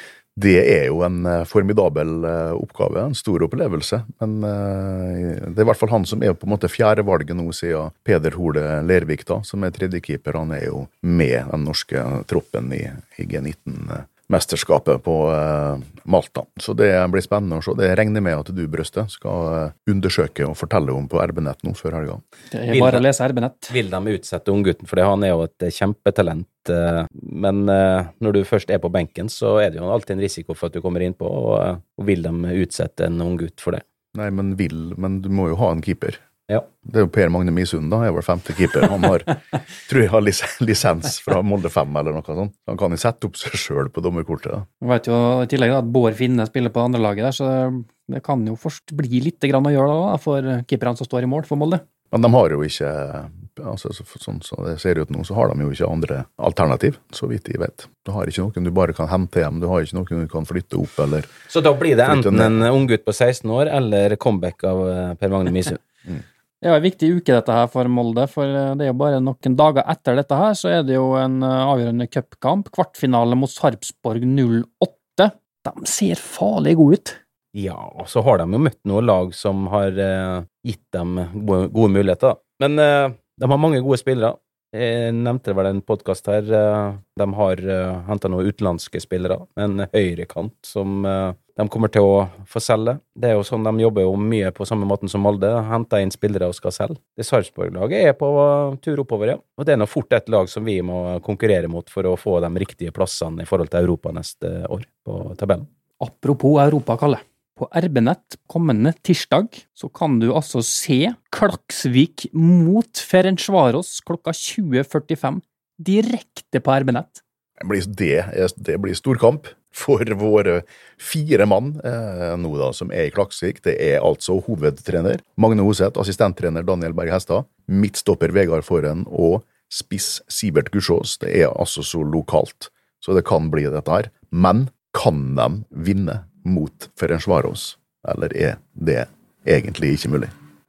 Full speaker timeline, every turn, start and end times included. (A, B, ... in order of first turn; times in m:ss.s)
0:00.4-0:22.2 A
0:22.5-0:23.7 B
0:22.7-0:23.0 C
0:23.7-0:33.8 C
0:34.1-0:36.2 A
0:36.8-0:44.7 A
0:44.8-0:51.8 B
0:52.1-1:01.3 A
1:01.5-1:05.8 C
1:02.0-1:02.6 A
1:06.6-1:17.2 B
1:17.5-1:45.7 C
1:46.0-1:57.2 B
1:57.6-2:20.3 A